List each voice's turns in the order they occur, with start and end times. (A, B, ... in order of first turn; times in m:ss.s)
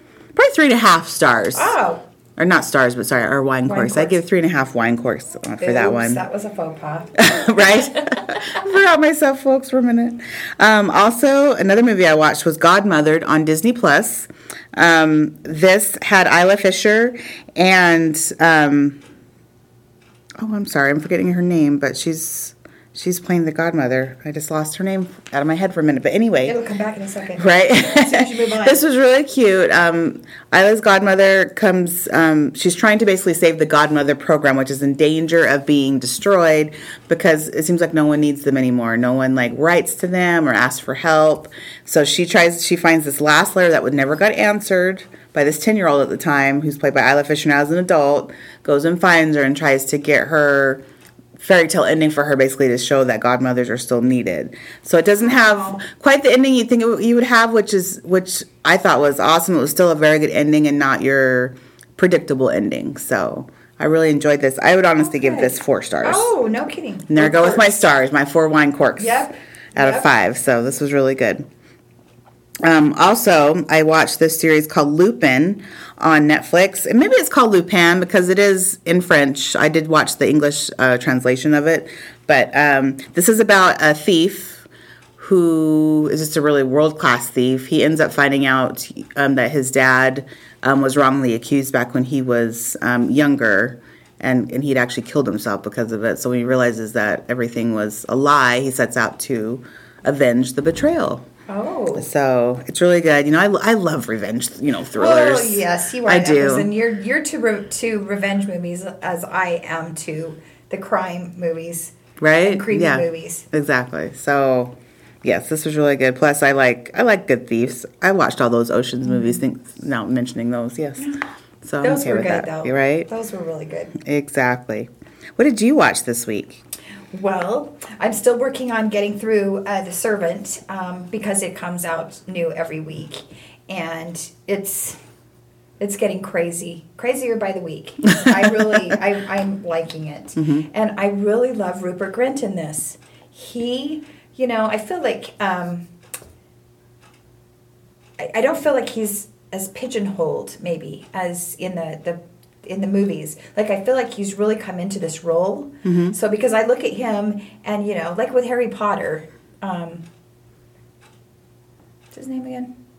0:00.4-0:01.8 A
0:01.5-0:02.0 B
0:02.4-0:06.2 A
0:03.7-0:04.2 B
0:05.6-0:08.4 B
0:07.2-0:19.0 A
0:20.4-0:26.6 A
0:26.4-0:28.8 B
0:27.4-0:50.8 A
0:51.4-1:06.3 A
0:55.3-0:55.8 B
1:05.0-1:07.8 B
1:07.1-1:11.4 A
1:09.0-1:10.1 B
1:12.6-1:24.7 A
1:25.2-1:41.2 A
1:41.5-1:42.1 B
1:42.0-1:46.7 A
1:45.0-1:53.5 B
1:52.2-2:03.1 A
1:59.1-1:59.4 B
2:01.8-2:04.0 B
2:04.0-2:06.6 A
2:07.1-2:15.0 B
2:15.8-2:25.9 B
2:18.2-2:18.7 A
2:28.2-2:40.0 B
2:35.8-2:36.2 A
2:42.1-2:42.7 B